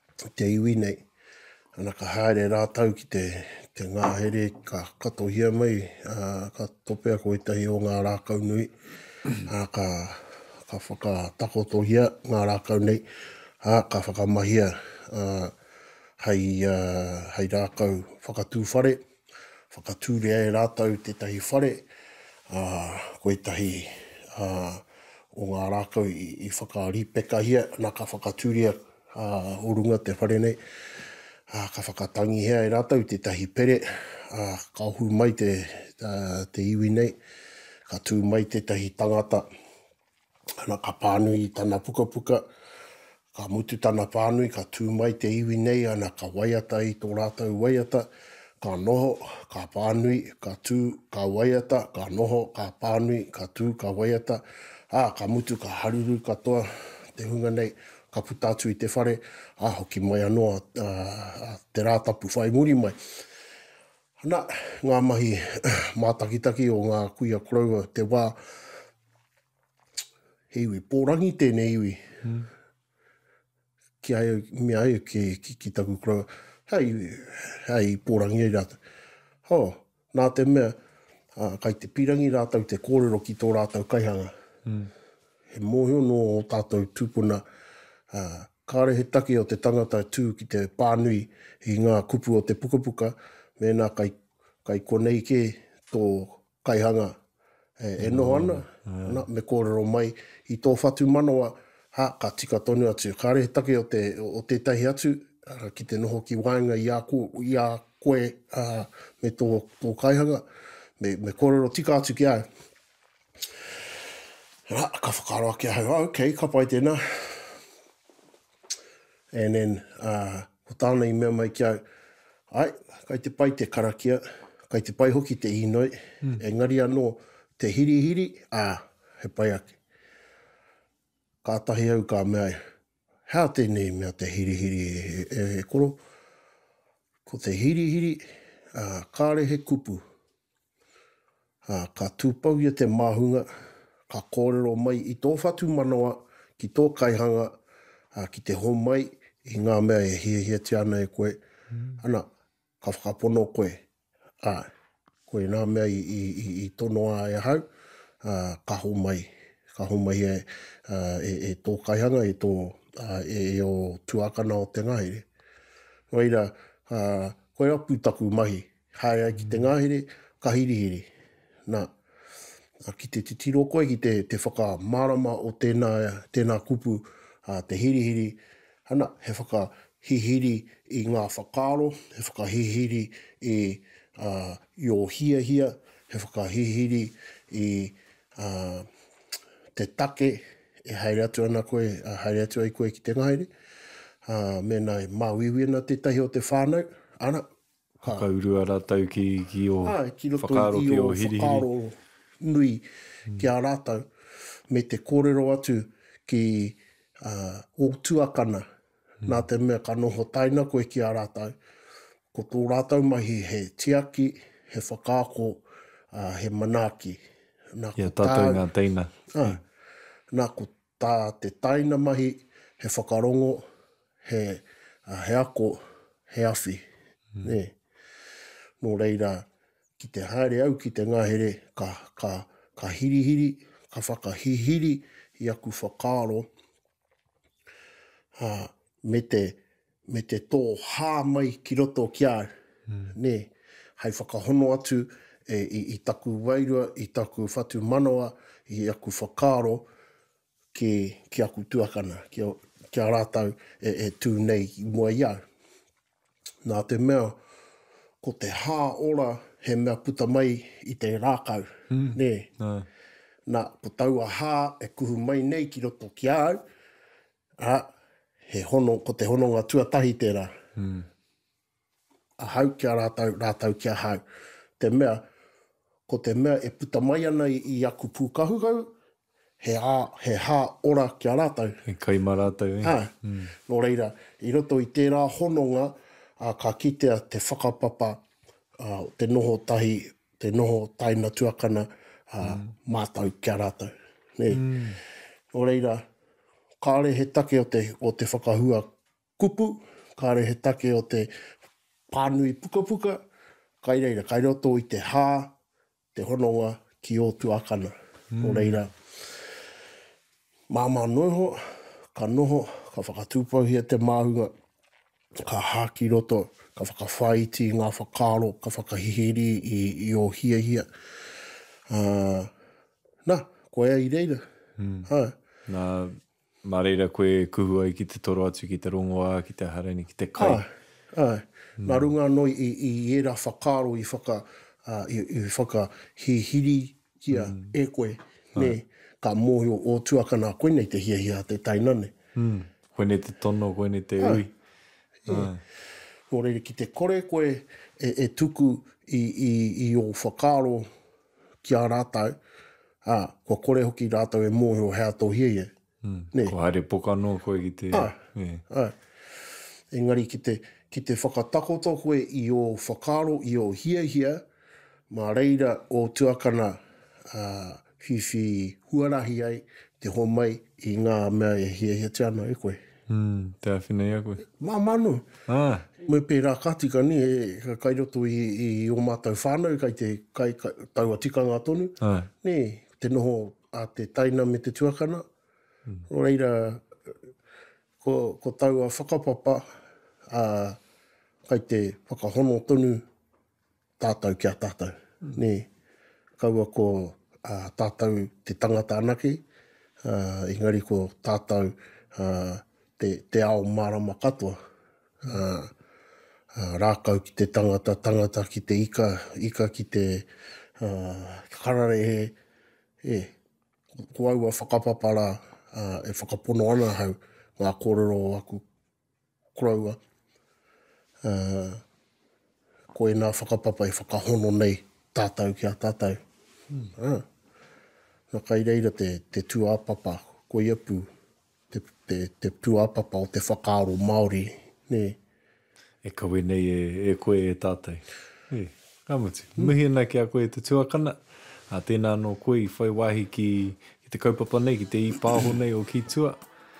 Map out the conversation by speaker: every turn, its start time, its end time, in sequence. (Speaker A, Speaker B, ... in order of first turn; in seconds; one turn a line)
Speaker A: 0.3-1.0
Speaker A: 1.8-8.7
Speaker A: 9.4-13.0
Speaker A: 13.6-15.5
Speaker A: 16.2-19.0
Speaker A: 19.7-21.9
Speaker A: 22.5-30.6
Speaker A: 31.5-37.2
Speaker A: 37.9-39.5
Speaker A: 40.6-42.4
Speaker A: 43.3-48.1
Speaker A: 48.6-63.0
Speaker A: 64.2-68.4
Speaker A: 70.5-72.1
Speaker B: 72.2-72.5
Speaker A: 74.0-78.8
Speaker A: 79.5-80.8
Speaker A: 81.3-84.3
Speaker A: 85.5-87.4
Speaker A: 88.1-97.2
Speaker A: 97.8-110.4
Speaker B: 98.0-99.2
Speaker A: 111.0-112.5
Speaker A: 114.7-117.6
Speaker A: 119.3-121.8
Speaker A: 122.5-129.8
Speaker A: 131.4-132.6
Speaker A: 133.3-136.0
Speaker A: 137.2-140.0
Speaker A: 141.7-143.5
Speaker A: 144.1-147.5
Speaker A: 148.1-151.4
Speaker B: 151.7-152.0
Speaker A: 152.0-152.2
Speaker A: 152.8-153.8
Speaker A: 154.4-154.7
Speaker A: 155.3-157.6
Speaker A: 158.2-165.2
Speaker A: 166.1-171.1
Speaker B: 169.4-169.7
Speaker A: 171.7-171.9
Speaker A: 172.8-188.9
Speaker A: 189.7-193.5
Speaker A: 194.2-197.4
Speaker B: 198.0-201.7
Speaker A: 199.8-202.8
Speaker A: 203.3-204.1
Speaker A: 204.7-208.6
Speaker A: 209.2-211.5
Speaker A: 212.3-217.2
Speaker A: 217.7-218.6
Speaker B: 218.0-219.6
Speaker A: 219.3-219.6
Speaker A: 220.3-223.6
Speaker A: 224.2-226.8
Speaker A: 227.4-227.7
Speaker A: 228.8-229.5
Speaker A: 230.0-236.5
Speaker A: 238.4-242.5
Speaker A: 243.1-249.9
Speaker A: 250.7-255.4
Speaker A: 256.6-257.4
Speaker A: 258.2-262.5
Speaker B: 261.9-262.9
Speaker A: 263.5-266.6
Speaker A: 267.6-267.9
Speaker A: 268.4-270.5
Speaker B: 270.8-271.1
Speaker A: 272.4-274.2
Speaker A: 274.8-275.2
Speaker A: 276.1-278.9
Speaker A: 279.6-281.8
Speaker B: 281.9-283.5
Speaker A: 282.8-288.2
Speaker A: 288.8-294.6
Speaker B: 292.4-292.7
Speaker B: 294.5-295.0
Speaker A: 295.5-296.0
Speaker A: 296.8-301.3
Speaker A: 302.1-303.2
Speaker A: 303.8-305.5
Speaker A: 306.1-308.9
Speaker B: 308.3-308.8
Speaker A: 310.7-314.5
Speaker A: 315.4-320.9
Speaker A: 321.9-322.5
Speaker A: 323.2-324.4
Speaker B: 324.8-325.1
Speaker A: 325.1-325.3
Speaker B: 325.7-330.6
Speaker A: 330.4-342.1
Speaker B: 331.8-332.1
Speaker B: 337.3-337.7
Speaker B: 342.4-344.5
Speaker A: 345.2-345.5
Speaker B: 345.3-345.6
Speaker A: 346.3-350.9
Speaker A: 351.6-352.4
Speaker A: 353.0-355.7
Speaker B: 356.0-358.6
Speaker A: 358.7-359.0
Speaker A: 359.9-364.4
Speaker A: 365.1-372.8
Speaker B: 373.1-374.4
Speaker A: 374.4-375.3
Speaker B: 375.5-375.9
Speaker A: 376.0-385.2
Speaker B: 382.0-382.3
Speaker A: 386.1-386.9
Speaker A: 388.0-389.6
Speaker A: 390.3-390.8
Speaker A: 391.4-393.0
Speaker A: 394.0-395.7
Speaker A: 396.4-399.4
Speaker A: 400.0-404.6
Speaker A: 405.2-405.7
Speaker A: 406.5-412.4
Speaker A: 413.0-413.3
Speaker A: 414.0-418.6
Speaker A: 419.5-420.0
Speaker A: 421.2-421.8
Speaker A: 422.9-426.2
Speaker A: 426.9-427.2
Speaker A: 428.3-431.1
Speaker A: 431.7-435.2
Speaker B: 436.0-446.4